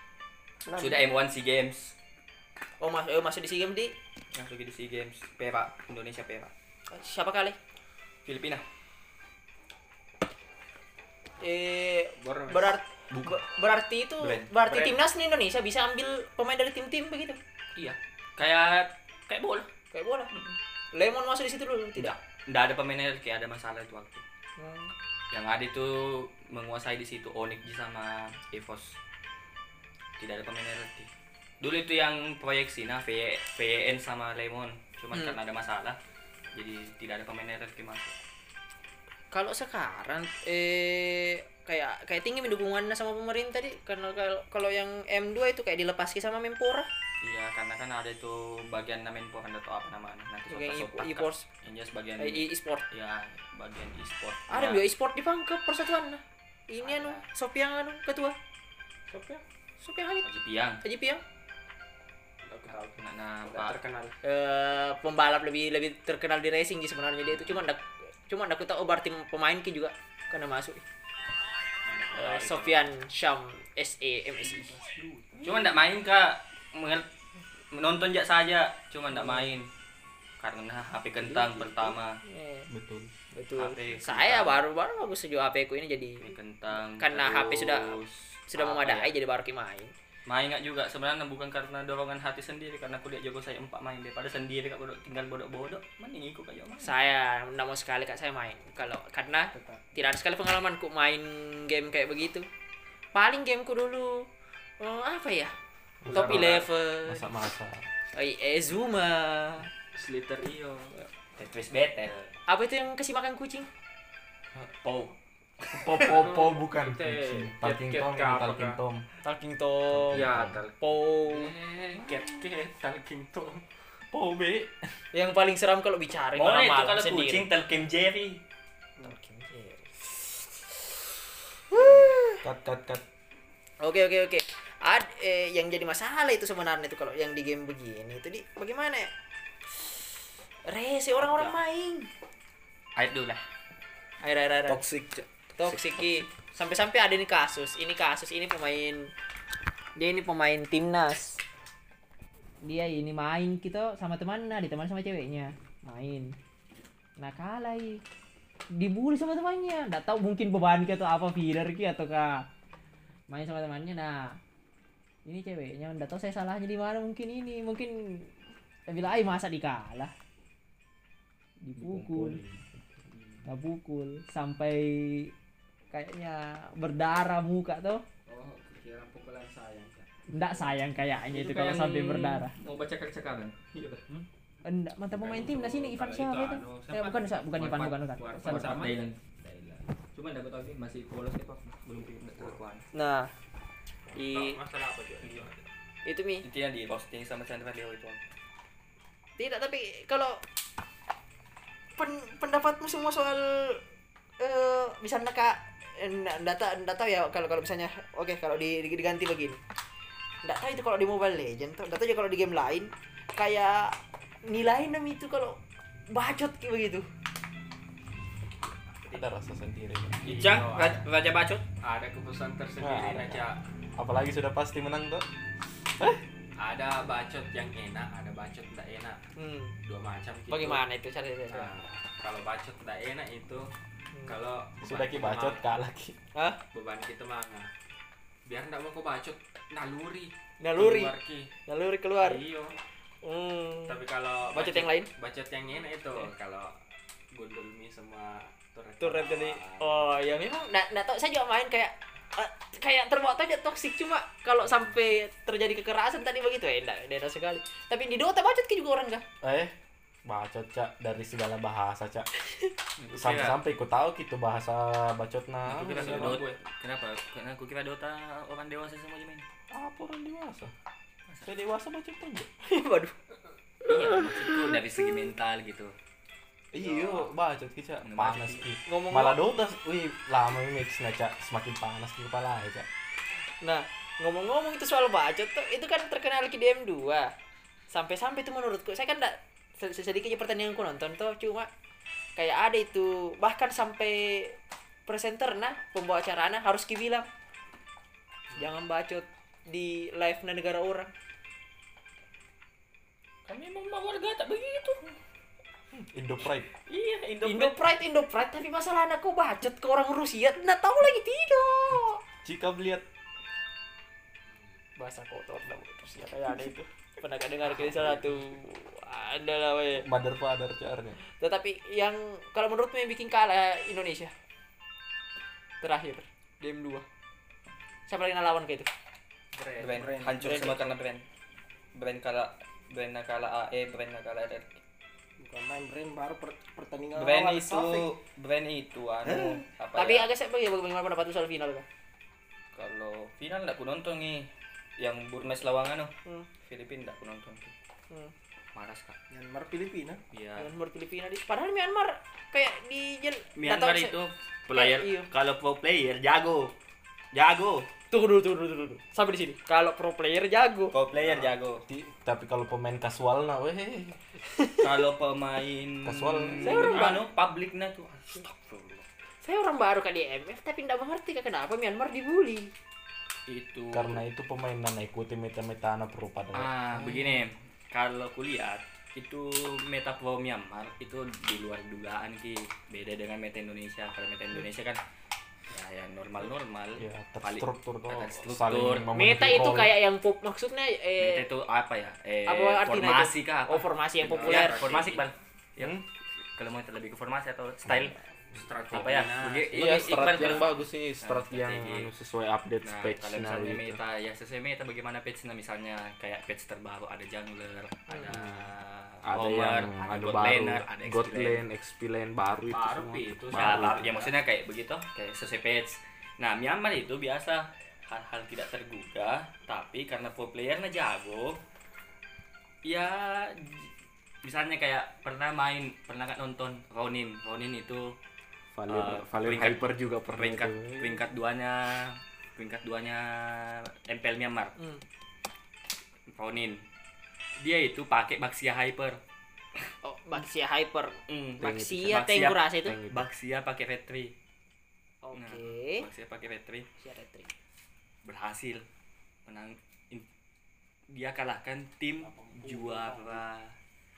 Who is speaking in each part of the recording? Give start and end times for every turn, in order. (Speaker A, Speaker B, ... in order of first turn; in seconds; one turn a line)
Speaker A: 0.6-1.0
Speaker B: 0.8-1.9
Speaker C: 2.8-3.9
Speaker B: 4.3-6.5
Speaker C: 6.9-7.6
Speaker B: 8.2-8.6
Speaker C: 11.4-17.4
Speaker D: 12.2-12.8
Speaker B: 13.1-13.4
Speaker B: 14.2-15.0
Speaker B: 17.8-19.7
Speaker C: 19.9-20.3
Speaker C: 20.9-22.1
Speaker B: 21.9-24.2
Speaker C: 24.6-24.9
Speaker B: 25.3-29.0
Speaker B: 30.2-31.1
Speaker B: 31.6-36.0
Speaker B: 36.5-38.1
Speaker C: 39.3-46.9
Speaker B: 47.2-54.8
Speaker C: 50.5-51.5
Speaker C: 52.2-52.8
Speaker C: 54.5-58.4
Speaker B: 56.8-57.2
Speaker D: 59.1-59.4
Speaker C: 59.8-60.3
Speaker B: 60.2-60.8
Speaker C: 60.8-61.2
Speaker D: 62.5-64.2
Speaker B: 62.7-63.8
Speaker C: 64.2-70.8
Speaker D: 71.8-72.7
Speaker C: 72.1-74.7
Speaker B: 72.2-72.5
Speaker D: 74.4-75.7
Speaker B: 75.4-77.1
Speaker B: 77.7-79.7
Speaker B: 80.4-82.2
Speaker D: 81.2-82.0
Speaker C: 82.2-82.7
Speaker E: 82.7-83.1
Speaker C: 83.3-86.3
Speaker B: 83.5-84.6
Speaker B: 86.2-89.1
Speaker C: 86.8-89.9
Speaker B: 90.3-97.0
Speaker C: 96.8-102.5
Speaker C: 103.1-104.3
Speaker C: 104.8-105.5
Speaker E: 106.0-107.8
Speaker D: 106.1-106.7
Speaker C: 106.1-107.2
Speaker C: 108.1-109.7
Speaker D: 109.9-111.0
Speaker B: 111.4-112.3
Speaker C: 112.5-113.7
Speaker B: 114.8-116.1
Speaker E: 115.7-119.0
Speaker D: 115.9-118.8
Speaker C: 119.2-121.5
Speaker E: 119.9-120.6
Speaker D: 120.1-123.6
Speaker E: 124.1-124.7
Speaker C: 125.1-127.5
Speaker B: 126.3-128.4
Speaker C: 129.0-129.9
Speaker C: 131.7-132.4
Speaker E: 132.4-133.0
Speaker C: 133.8-139.1
Speaker C: 140.7-142.1
Speaker D: 141.3-141.5
Speaker B: 142.9-143.4
Speaker C: 144.2-144.8
Speaker E: 144.7-145.8
Speaker C: 145.6-149.1
Speaker C: 150.0-151.4
Speaker C: 152.6-156.3
Speaker C: 157.2-158.0
Speaker C: 158.7-162.5
Speaker C: 163.3-164.4
Speaker C: 165.2-168.3
Speaker C: 168.9-170.1
Speaker C: 171.6-172.4
Speaker E: 171.8-172.7
Speaker D: 173.1-173.4
Speaker C: 173.4-175.3
Speaker C: 175.9-178.0
Speaker D: 178.3-180.1
Speaker C: 180.3-182.5
Speaker B: 181.3-184.0
Speaker C: 184.6-188.9
Speaker D: 185.1-190.0
Speaker B: 187.6-189.2
Speaker B: 190.1-192.8
Speaker C: 192.9-193.3
Speaker D: 194.1-195.7
Speaker C: 194.1-194.6
Speaker B: 195.2-195.5
Speaker C: 196.0-196.4
Speaker B: 196.4-198.2
Speaker C: 199.4-200.4
Speaker C: 202.0-203.8
Speaker C: 204.4-209.6
Speaker C: 210.4-215.6
Speaker C: 216.1-217.1
Speaker E: 219.1-220.2
Speaker D: 220.2-221.0
Speaker B: 220.2-221.6
Speaker D: 221.8-223.6
Speaker E: 222.8-223.4
Speaker E: 224.0-225.2
Speaker D: 226.6-229.2
Speaker C: 229.4-229.7
Speaker D: 229.8-230.8
Speaker C: 230.5-231.7
Speaker D: 231.5-233.7
Speaker D: 234.2-235.7
Speaker E: 234.8-236.2
Speaker D: 236.7-237.7
Speaker D: 238.4-241.5
Speaker C: 240.6-241.1
Speaker C: 241.7-242.4
Speaker D: 242.2-242.7
Speaker C: 243.2-244.0
Speaker D: 243.8-246.8
Speaker C: 244.5-245.1
Speaker D: 247.3-250.1
Speaker C: 249.0-259.2
Speaker E: 259.4-259.7
Speaker E: 260.2-262.3
Speaker B: 263.0-263.6
Speaker E: 263.1-266.4
Speaker B: 265.6-269.4
Speaker D: 265.7-266.6
Speaker E: 269.7-270.7
Speaker E: 271.4-272.5
Speaker C: 272.6-273.1
Speaker C: 273.8-274.8
Speaker B: 273.8-275.9
Speaker E: 276.7-282.9
Speaker D: 276.8-277.2
Speaker B: 278.0-278.6
Speaker C: 278.9-279.4
Speaker C: 283.6-287.3
Speaker C: 287.9-291.7
Speaker C: 292.4-297.3
Speaker C: 298.5-301.1
Speaker B: 303.4-305.0
Speaker E: 305.9-306.7
Speaker B: 306.9-307.8
Speaker C: 307.4-312.2
Speaker E: 312.4-313.0
Speaker C: 315.0-320.1
Speaker E: 316.5-316.8
Speaker E: 319.9-321.2
Speaker C: 321.2-324.3
Speaker C: 325.8-327.1
Speaker C: 328.1-328.9
Speaker D: 329.5-330.1
Speaker B: 329.8-331.2
Speaker A: 329.8-330.8
Speaker C: 330.4-330.8
Speaker B: 331.9-334.8
Speaker A: 335.4-338.1
Speaker B: 337.1-340.3
Speaker A: 339.2-339.6
Speaker C: 339.9-341.8
Speaker B: 342.7-347.7
Speaker B: 348.7-349.2
Speaker A: 349.3-350.2
Speaker B: 350.3-350.7
Speaker C: 350.6-354.1
Speaker B: 353.6-356.7
Speaker C: 354.7-355.3
Speaker B: 357.3-357.9
Speaker C: 358.1-360.9
Speaker B: 360.9-361.8
Speaker E: 361.9-364.2
Speaker C: 364.5-364.8
Speaker B: 364.8-369.0
Speaker E: 366.0-367.1
Speaker C: 366.6-367.2
Speaker C: 369.4-372.7
Speaker D: 373.5-373.7
Speaker B: 373.5-374.1
Speaker E: 373.9-377.4
Speaker B: 376.5-385.0
Speaker B: 385.7-389.1
Speaker E: 387.0-389.9
Speaker C: 389.1-391.4
Speaker B: 391.2-398.2
Speaker C: 392.5-394.9
Speaker D: 394.2-395.2
Speaker E: 395.8-396.0
Speaker D: 398.5-400.6
Speaker B: 398.9-402.1
Speaker E: 399.7-404.0
Speaker B: 402.8-411.6
Speaker E: 408.3-408.7
Speaker E: 409.2-414.1
Speaker D: 412.7-414.3
Speaker B: 413.5-421.6
Speaker B: 422.8-423.9
Speaker B: 424.4-428.1
Speaker E: 428.7-431.2
Speaker B: 428.9-434.7
Speaker C: 434.8-435.0
Speaker B: 436.3-436.8
Speaker B: 437.6-439.2
Speaker C: 440.0-443.0
Speaker B: 441.3-444.3
Speaker E: 441.6-442.2
Speaker E: 442.8-443.3
Speaker C: 445.2-446.1
Speaker B: 445.3-446.9
Speaker C: 447.0-447.5
Speaker B: 448.2-448.8
Speaker B: 449.4-450.2
Speaker B: 451.1-453.7
Speaker D: 452.2-453.4